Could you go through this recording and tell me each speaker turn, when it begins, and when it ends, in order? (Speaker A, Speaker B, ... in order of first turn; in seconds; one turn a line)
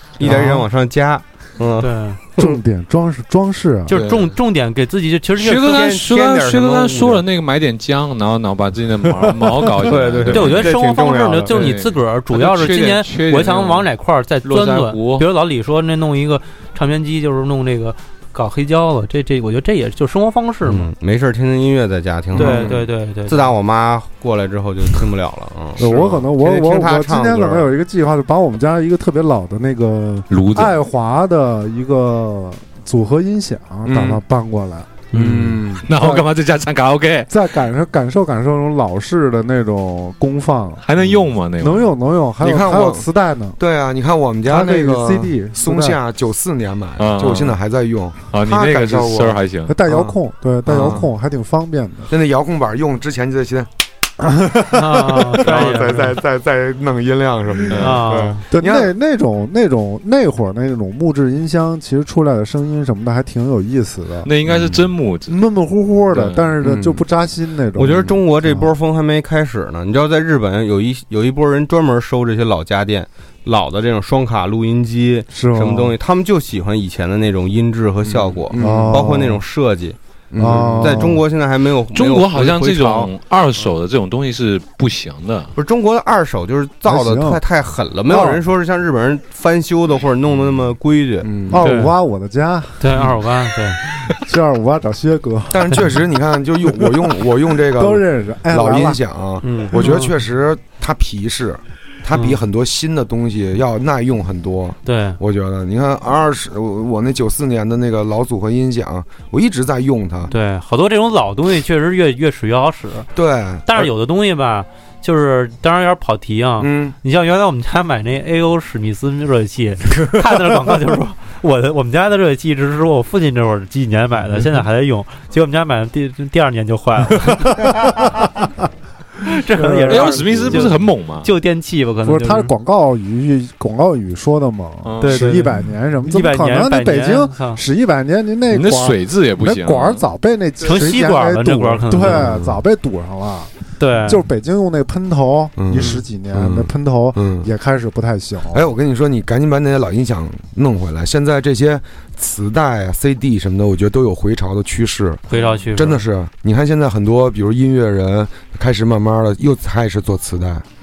Speaker A: 0.2-2.5
Speaker B: 0.2-0.6
Speaker B: 1.8-2.2
Speaker C: 2.4-3.9
Speaker B: 3.9-5.8
Speaker D: 3.9-4.3
Speaker D: 5.4-10.7
Speaker A: 5.6-7.2
Speaker C: 9.4-9.7
Speaker A: 9.9-11.6
Speaker B: 10.2-20.9
Speaker D: 11.5-13.9
Speaker D: 14.4-15.2
Speaker A: 20.6-27.7
Speaker B: 22.3-23.5
Speaker E: 22.3-22.8
Speaker C: 25.8-35.0
Speaker D: 30.3-30.8
Speaker E: 33.9-34.2
Speaker E: 35.1-35.9
Speaker D: 35.1-37.3
Speaker C: 35.9-36.3
Speaker C: 37.3-41.0
Speaker D: 40.8-41.9
Speaker C: 41.6-43.6
Speaker E: 42.4-43.0
Speaker E: 43.6-51.1
Speaker C: 44.5-46.0
Speaker D: 47.0-47.5
Speaker D: 48.3-49.8
Speaker C: 49.7-52.1
Speaker E: 52.1-53.7
Speaker C: 54.4-55.2
Speaker B: 54.7-56.2
Speaker E: 55.3-58.9
Speaker D: 57.7-58.0
Speaker B: 57.8-58.4
Speaker C: 58.5-64.3
Speaker D: 64.2-65.4
Speaker E: 64.5-64.8
Speaker C: 65.3-68.7
Speaker D: 66.1-66.5
Speaker A: 67.8-80.0
Speaker C: 75.3-76.0
Speaker E: 78.0-79.2
Speaker C: 78.6-79.4
Speaker E: 80.3-81.2
Speaker C: 80.4-81.2
Speaker A: 80.8-83.1
Speaker D: 81.9-85.5
Speaker A: 85.5-91.3
Speaker C: 86.8-87.4
Speaker C: 88.1-88.4
Speaker E: 91.2-91.6
Speaker C: 91.5-93.1
Speaker B: 91.6-91.9
Speaker B: 92.8-93.8
Speaker C: 94.0-96.0
Speaker E: 95.5-110.3
Speaker C: 97.7-99.0
Speaker A: 99.4-99.7
Speaker B: 99.8-100.1
Speaker B: 102.1-102.4
Speaker B: 104.8-105.2
Speaker B: 110.3-113.1
Speaker E: 113.1-113.9
Speaker B: 113.7-127.8
Speaker E: 116.6-116.9
Speaker C: 127.3-128.5
Speaker B: 129.2-132.5
Speaker C: 129.5-130.8
Speaker D: 129.9-131.3
Speaker C: 132.0-143.5
Speaker D: 134.8-135.4
Speaker B: 135.0-137.6
Speaker D: 138.5-140.0
Speaker B: 140.6-142.3
Speaker E: 142.0-142.6
Speaker B: 143.8-144.2
Speaker C: 144.0-148.6
Speaker E: 145.6-147.5
Speaker B: 145.7-146.0
Speaker E: 148.5-155.2
Speaker B: 155.3-156.0
Speaker D: 155.3-155.6
Speaker E: 155.7-160.6